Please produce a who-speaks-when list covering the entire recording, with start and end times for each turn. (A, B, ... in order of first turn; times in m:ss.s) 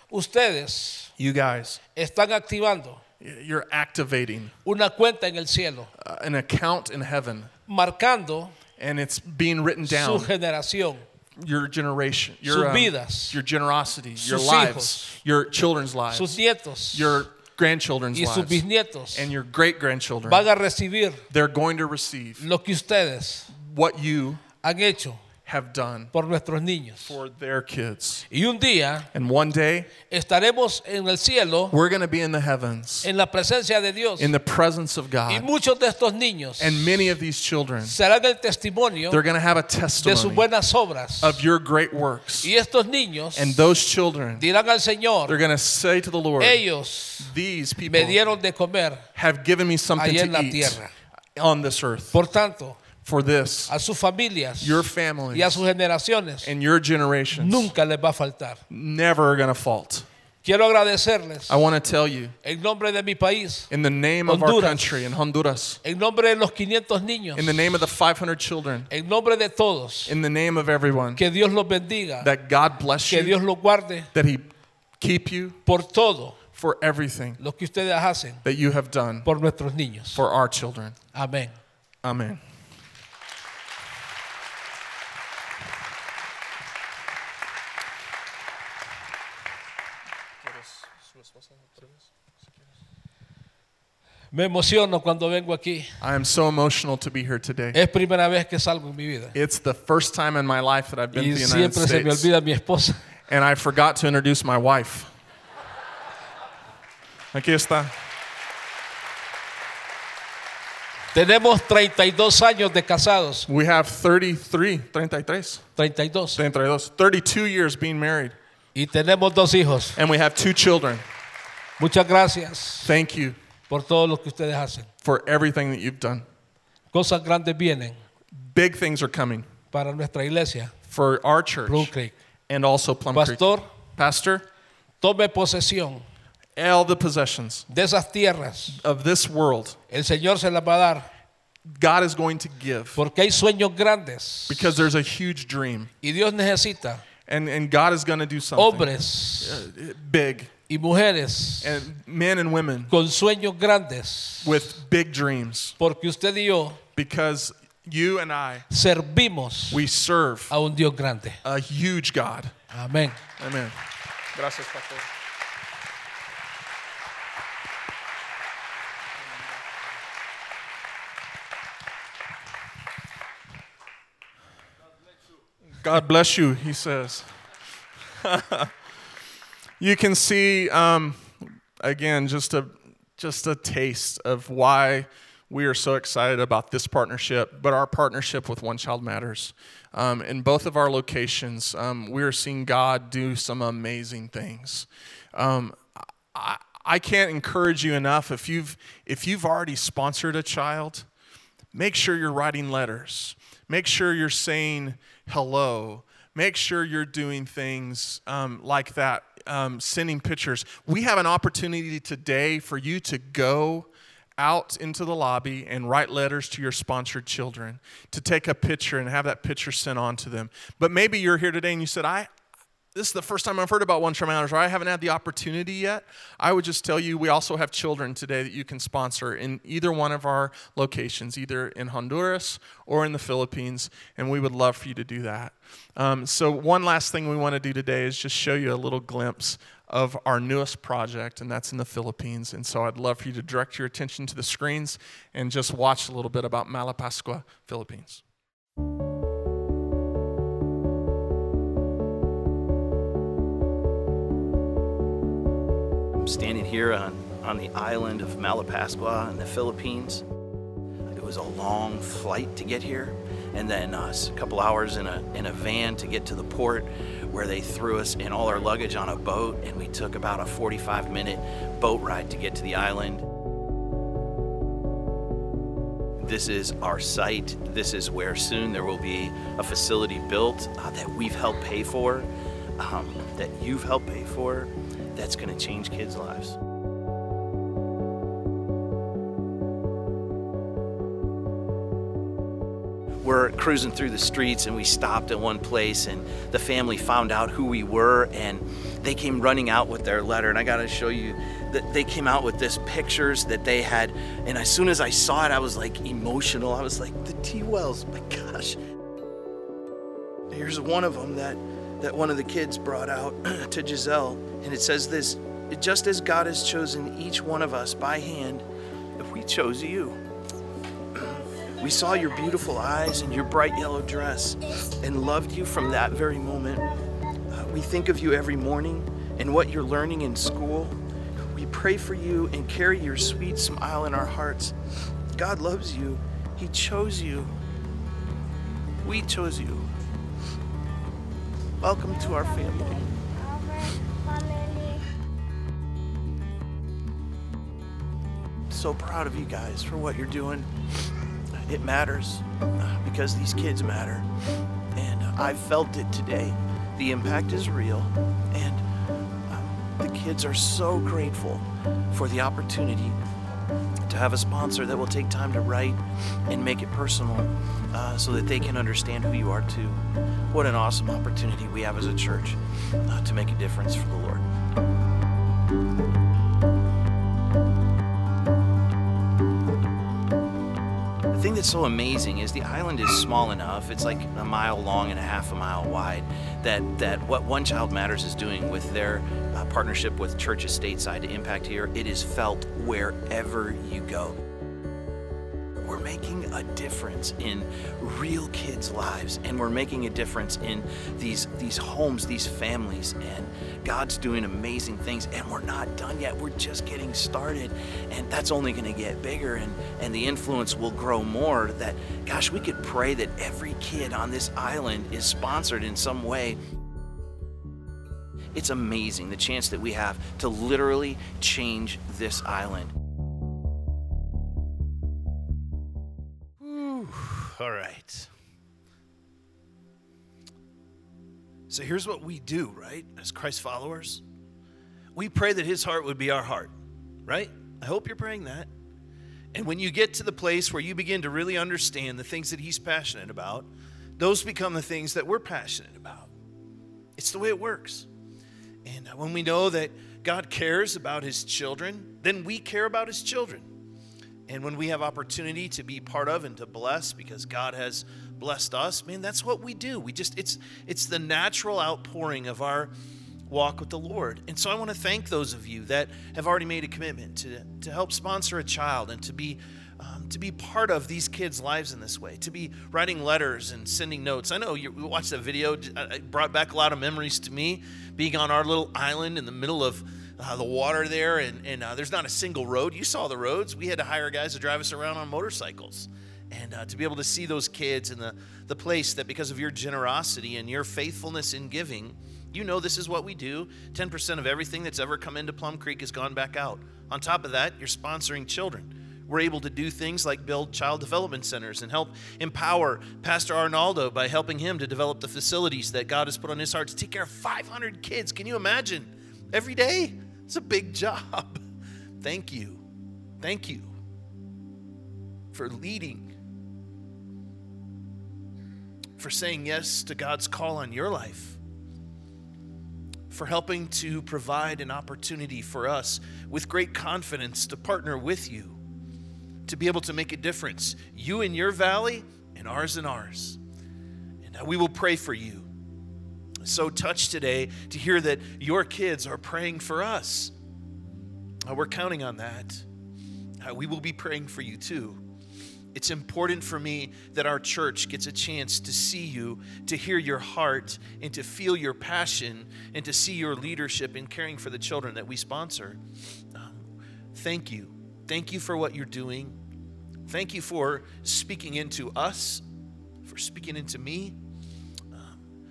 0:00.1-0:01.1 A
0:01.2-0:01.8 B
0:01.9-0:03.0 A
0:03.2-0:04.5 B
0:04.6-0:05.9 A
0:06.0-0:07.5 B
0:07.7-0:08.6 A
0:08.8-0:10.3 B
0:09.8-0:11.0 A
0:11.4-0:16.4 B
0:12.4-0:13.4 A
0:14.2-0:15.2 A
0:16.1-0:17.3 A
0:16.9-0:20.5 B
0:18.1-0:19.3 A
0:20.3-0:21.2 A
0:21.3-0:22.4 B
0:22.4-0:23.5 A
0:23.5-0:24.4 B
0:24.6-0:25.2 A
0:25.4-0:26.1 B
0:26.1-0:27.2 A
0:27.0-0:28.2 B
0:28.3-0:29.1 A
0:29.1-0:29.9 B
0:30.1-0:31.7 A
0:31.7-0:33.1 B
0:33.0-0:34.3 A
0:34.2-0:35.5 B
0:35.3-0:37.1 A
0:36.6-0:38.0 B
0:37.8-0:39.2 A
0:39.1-0:40.4 B
0:40.0-0:41.4 A
0:41.2-0:42.5 B
0:42.4-0:43.7 A
0:43.3-0:44.4 B
0:44.4-0:45.4 A
0:45.3-0:46.6 B
0:46.4-0:47.3 A
0:47.2-0:48.2 B
0:47.8-0:49.1 A
0:49.1-0:50.8 B
0:50.0-0:50.9 A
0:51.4-0:52.2 B
0:52.1-0:52.8 A
0:53.0-0:53.7 B
0:53.7-0:56.5 A
0:54.6-0:55.6 B
0:56.4-0:57.7 B
0:57.3-0:58.6 A
0:58.7-1:00.1 B
1:00.4-1:01.6 A
1:01.5-1:02.3 B
1:02.4-1:03.7 A
1:03.7-1:05.8 B
1:04.2-1:05.0 A
1:05.8-1:07.6 A
1:07.4-1:08.9 B
1:08.9-1:10.1 A
1:10.1-1:11.2 B
1:11.2-1:12.3 A
1:12.2-1:13.4 B
1:13.1-1:14.1 A
1:14.1-1:15.6 B
1:15.6-1:16.4 A
1:16.6-1:17.4 B
1:17.4-1:18.4 A
1:18.4-1:19.3 B
1:19.2-1:20.2 A
1:20.1-1:21.0 B
1:21.1-1:21.6 A
1:22.0-1:22.4 B
1:30.4-1:32.1 B
1:34.3-1:36.0 A
1:36.0-1:37.8 B
1:37.7-1:39.4 A
1:39.3-1:42.3 B
1:41.1-1:43.0 A
1:43.3-1:45.1 B
1:47.3-1:47.9 B
1:51.1-1:53.5 A
1:53.5-1:55.6 B
1:55.8-1:56.4 A
1:56.4-1:58.4 B
1:58.7-2:00.0 A
2:00.0-2:01.0 B
2:01.8-2:02.9 A
2:02.8-2:03.4 B
2:03.7-2:04.9 A
2:05.0-2:06.2 B
2:06.9-2:08.0 A
2:08.3-2:09.5 B
2:09.7-2:10.7 A
2:10.9-2:11.9 B
2:11.7-2:12.1 A
2:12.5-2:14.4 B
2:13.1-2:13.7 A
2:15.0-2:16.0 A
2:16.6-2:17.6 B
2:17.7-2:18.8 A
2:18.7-2:19.8 B
2:19.9-2:21.1 A
2:21.7-2:23.0 B
2:23.0-2:24.7 A
2:24.5-2:25.9 B
2:26.0-2:27.0 A
2:27.2-2:30.5 B
2:28.6-2:29.6 A
2:30.7-2:31.9 A
2:31.6-2:32.9 B
2:32.9-2:34.8 A
2:34.4-2:35.8 B
2:35.8-2:36.8 A
2:37.0-2:38.6 B
2:38.7-2:39.8 A
2:39.7-2:40.5 B
2:40.5-2:41.4 A
2:41.4-2:42.5 B
2:42.7-2:43.2 A
2:43.4-2:43.8 B
2:44.3-2:45.1 B
2:55.8-2:57.3 B
2:58.1-2:58.7 B
2:59.8-3:21.0 B
3:21.7-3:42.3 B
3:42.9-4:08.2 B
4:16.1-4:20.2 C
4:21.1-4:33.2 C
4:36.2-4:46.6 C
4:53.2-5:08.8 C
5:10.5-5:18.6 C
5:19.2-5:20.2 C
5:21.2-5:26.9 C
5:27.5-5:31.0 C
5:31.5-5:34.7 C
5:35.3-5:37.5 C
5:39.0-5:39.9 C
5:41.8-5:43.1 C
5:44.4-5:44.9 C
5:48.7-5:50.7 C
5:51.7-5:54.3 C
5:55.0-5:58.8 C
5:59.5-6:03.2 C
6:04.0-6:14.5 C
6:21.3-6:34.4 C
6:35.8-6:56.6 C
6:58.5-7:02.9 C
7:06.6-7:08.3 C
7:11.7-7:14.2 C
7:15.1-7:16.7 C
7:17.3-7:18.7 C
7:19.5-7:26.3 C
7:27.2-7:28.1 C
7:28.8-7:33.7 C
7:34.5-7:42.9 C
7:43.5-8:31.6 C
8:32.2-8:32.8 C
8:33.4-8:33.9 C
8:35.5-8:36.3 C
8:39.2-8:41.6 C
8:43.3-8:48.8 C
8:49.7-8:53.6 C
8:54.4-8:55.7 C
8:56.6-9:00.5 C
9:01.6-9:02.8 C
9:03.6-9:05.2 C
9:05.9-9:16.0 C
9:16.5-9:16.8 C
9:17.3-9:19.5 C
9:20.3-9:22.6 C
9:23.2-9:24.4 C
9:25.1-9:25.4 C